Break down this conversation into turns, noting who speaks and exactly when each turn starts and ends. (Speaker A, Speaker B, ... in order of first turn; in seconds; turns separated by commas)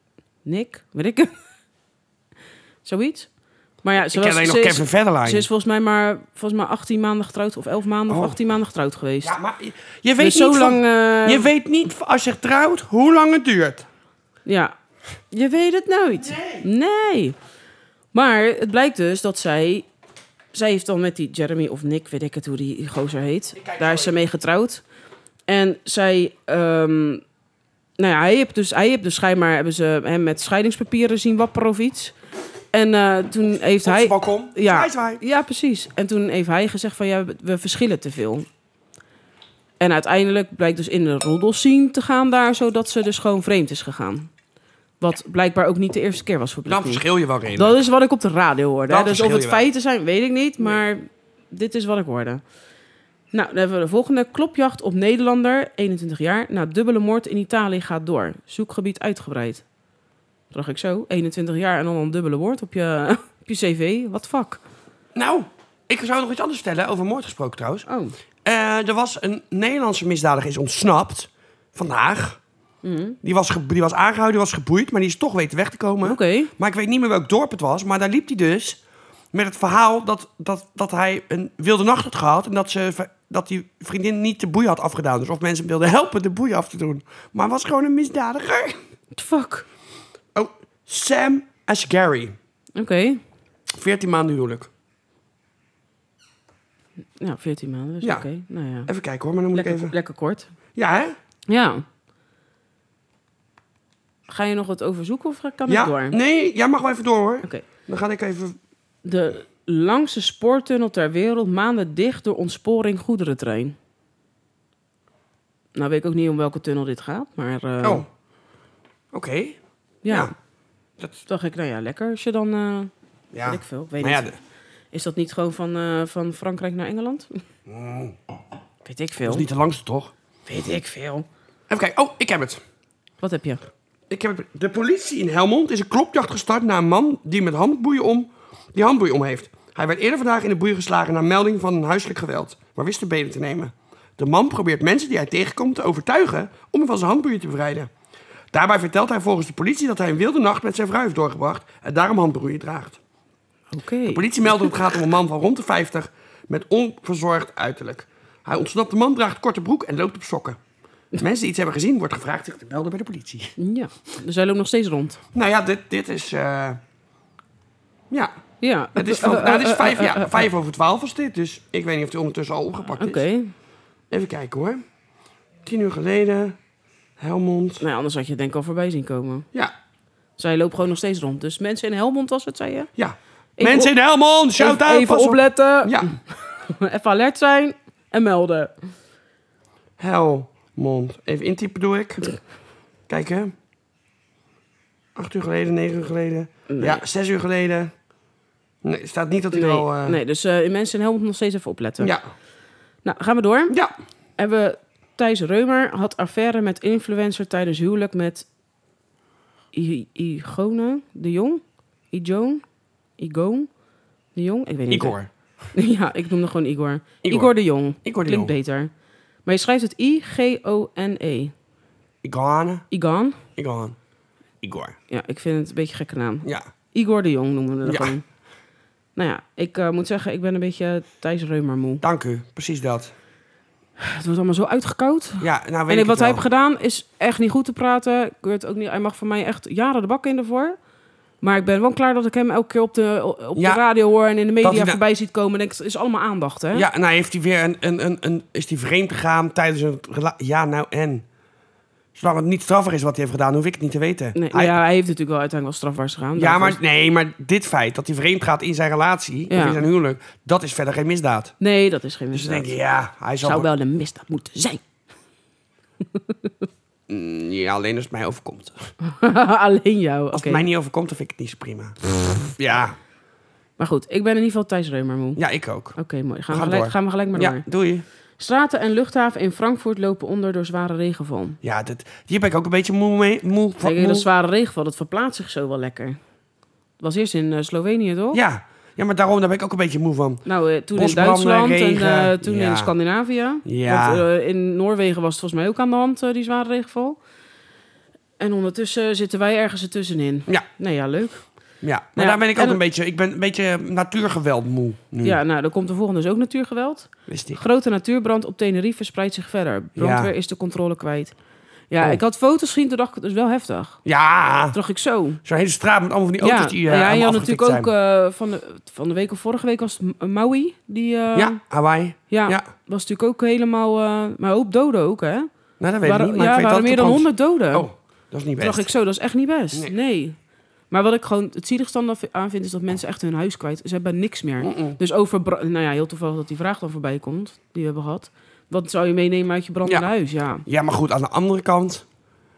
Speaker A: 0.4-1.3, Speaker A: 2.8-3.3, Speaker A: 3.8-9.3, Speaker B: 4.0-5.5, Speaker B: 8.1-8.4, Speaker B: 9.2-13.9, Speaker A: 10.2-11.5, Speaker A: 14.4-14.7, Speaker A: 15.3-17.4, Speaker B: 16.2-16.6, Speaker A: 18.1-19.9, Speaker A: 20.5-24.8, Speaker B: 23.6-24.1, Speaker A: 25.5-27.2, Speaker A: 28.0-32.1, Speaker A: 32.7-38.5, Speaker B: 33.8-35.2, Speaker A: 39.8-44.3, Speaker A: 45.0-47.0, Speaker B: 46.6-47.8, Speaker A: 47.5-52.4, Speaker B: 48.9-49.7, Speaker A: 53.3-59.6, Speaker A: 60.5-64.6, Speaker B: 65.1-67.8, Speaker A: 67.9-68.1, Speaker B: 68.4-72.4, Speaker A: 72.8-73.2, Speaker B: 73.2-78.8, Speaker A: 76.0-76.5, Speaker B: 79.3-88.8, Speaker A: 89.1-89.7, Speaker B: 90.3-92.3, Speaker A: 92.8-93.2, Speaker B: 93.7-94.7, Speaker A: 97.2-98.9, Speaker B: 98.9-99.9, Speaker A: 99.5-100.5, Speaker B: 100.8-101.2, Speaker A: 101.5-101.8, Speaker A: 104.3-106.2, Speaker B: 105.7-108.6, Speaker A: 109.0-113.8, Speaker A: 115.7-118.0, Speaker B: 119.1-120.3, Speaker A: 120.0-120.3, Speaker A: 121.2-122.9, Speaker B: 123.3-124.3, Speaker A: 123.4-124.3, Speaker A: 124.9-127.4, Speaker B: 127.7-128.2, Speaker A: 128.8-129.4, Speaker B: 129.2-130.1, Speaker A: 130.4-131.2, Speaker B: 131.7-132.6, Speaker A: 133.2-133.7, Speaker B: 134.1-147.9, Speaker B: 148.5-153.0, Speaker A: 153.7-154.2, Speaker B: 154.1-160.6, Speaker B: 161.2-163.6, Speaker A: 163.6-165.2, Speaker B: 165.3-166.8, Speaker A: 168.6-170.5, Speaker B: 168.9-173.2, Speaker A: 172.9-173.5, Speaker B: 174.1-174.8, Speaker B: 175.6-176.6, Speaker B: 177.2-177.8, Speaker A: 177.8-179.5, Speaker A: 180.4-182.9, Speaker B: 183.0-186.1, Speaker A: 183.6-183.9, Speaker A: 184.6-188.7, Speaker B: 190.0-192.4, Speaker B: 193.1-193.5, Speaker B: 195.1-197.9, Speaker A: 196.7-197.0, Speaker B: 198.8-200.2, Speaker A: 199.5-202.1, Speaker A: 203.0-203.8, Speaker A: 204.4-208.5, Speaker A: 209.7-212.6, Speaker A: 213.2-213.7, Speaker A: 214.3-215.2, Speaker B: 214.9-215.3, Speaker A: 215.7-218.9, Speaker B: 217.2-217.5, Speaker B: 218.0-218.5, Speaker A: 219.4-221.5, Speaker B: 222.2-222.8, Speaker A: 222.9-223.4, Speaker B: 223.6-223.9, Speaker B: 224.6-224.9, Speaker A: 225.1-228.2, Speaker B: 227.8-228.1, Speaker A: 229.2-232.0, Speaker B: 232.0-233.1, Speaker A: 234.0-240.8, Speaker B: 235.4-236.4, Speaker A: 241.4-246.8, Speaker B: 244.6-245.0, Speaker B: 246.7-251.2, Speaker B: 252.1-254.8, Speaker A: 254.3-256.8, Speaker B: 256.4-261.5, Speaker A: 259.5-259.8, Speaker A: 261.6-262.8, Speaker B: 262.3-263.7, Speaker A: 263.4-264.8, Speaker A: 266.0-266.5, Speaker B: 267.1-268.9, Speaker A: 269.0-270.6, Speaker B: 270.3-273.0, Speaker A: 273.8-275.4, Speaker B: 275.4-276.0, Speaker A: 275.9-277.6, Speaker B: 276.5-278.0, Speaker A: 278.4-281.6, Speaker B: 281.6-284.3, Speaker A: 283.8-286.2, Speaker A: 287.0-288.4, Speaker B: 288.3-290.4, Speaker A: 290.4-297.2, Speaker B: 290.9-292.9, Speaker B: 293.6-294.2, Speaker A: 298.4-301.5, Speaker B: 301.8-305.4, Speaker A: 302.1-302.8, Speaker A: 305.2-311.3, Speaker B: 307.3-307.6, Speaker B: 309.9-310.3, Speaker A: 311.9-314.0, Speaker B: 314.0-314.8, Speaker A: 314.7-315.4, Speaker B: 315.4-317.9, Speaker A: 316.4-321.6, Speaker B: 321.3-322.6, Speaker A: 322.3-325.5, Speaker B: 325.8-328.9, Speaker A: 326.0-327.9, Speaker A: 328.6-330.4, Speaker A: 330.9-340.6, Speaker B: 334.6-335.0, Speaker B: 340.6-342.0